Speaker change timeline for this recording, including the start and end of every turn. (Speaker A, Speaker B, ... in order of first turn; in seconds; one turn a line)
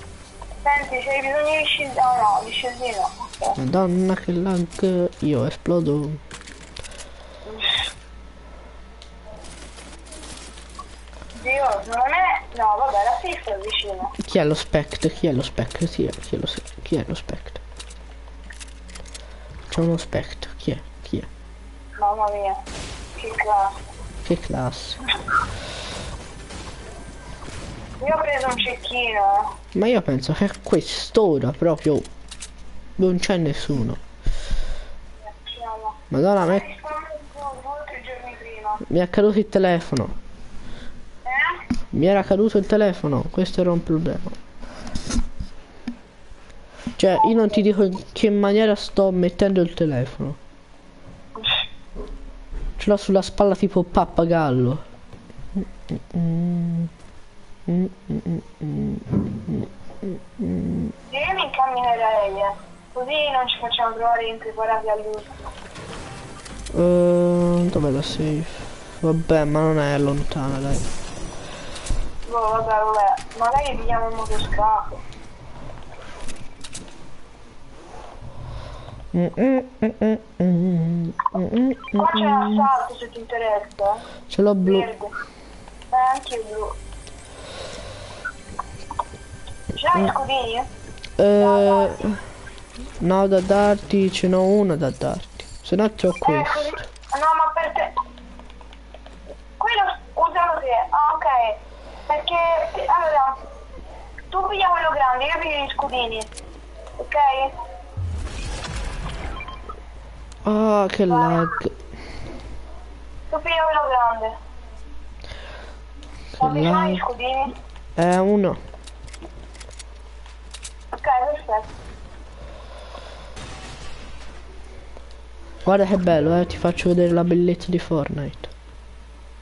Speaker A: 0.6-3.6
Speaker B: 3.6-6.2
Speaker A: 7.5-7.9
Speaker A: 11.4-14.1
Speaker B: 14.2-17.6
Speaker B: 19.7-21.3
Speaker A: 22.0-22.6
Speaker A: 23.1-23.8
Speaker B: 24.2-25.0
Speaker A: 28.0-29.5
Speaker B: 29.7-32.1
Speaker B: 33.0-34.0
Speaker A: 35.3-38.8
Speaker B: 36.1-36.6
Speaker B: 38.8-40.1
Speaker A: 41.2-41.6
Speaker B: 41.9-44.4
Speaker B: 47.0-50.4
Speaker A: 51.4-51.6
Speaker B: 52.8-54.8
Speaker B: 55.5-56.9
Speaker B: 57.7-60.9
Speaker A: 61.1-65.4
Speaker B: 66.7-70.9
Speaker A: 72.3-75.0
Speaker B: 79.1-82.7
Speaker A: 81.9-84.0
Speaker B: 84.3-84.9
Speaker A: 84.6-85.1
Speaker A: 85.9-86.8
Speaker A: 89.7-90.7
Speaker B: 91.2-92.2
Speaker A: 91.3-92.0
Speaker B: 93.0-96.8
Speaker A: 96.2-97.9
Speaker A: 99.6-103.4
Speaker A: 104.3-106.3
Speaker A: 107.0-107.5
Speaker B: 110.4-111.7
Speaker A: 111.1-111.5
Speaker A: 113.3-114.3
Speaker B: 116.3-117.0
Speaker A: 116.4-117.5
Speaker B: 118.0-118.6
Speaker A: 120.9-121.7
Speaker B: 125.7-128.5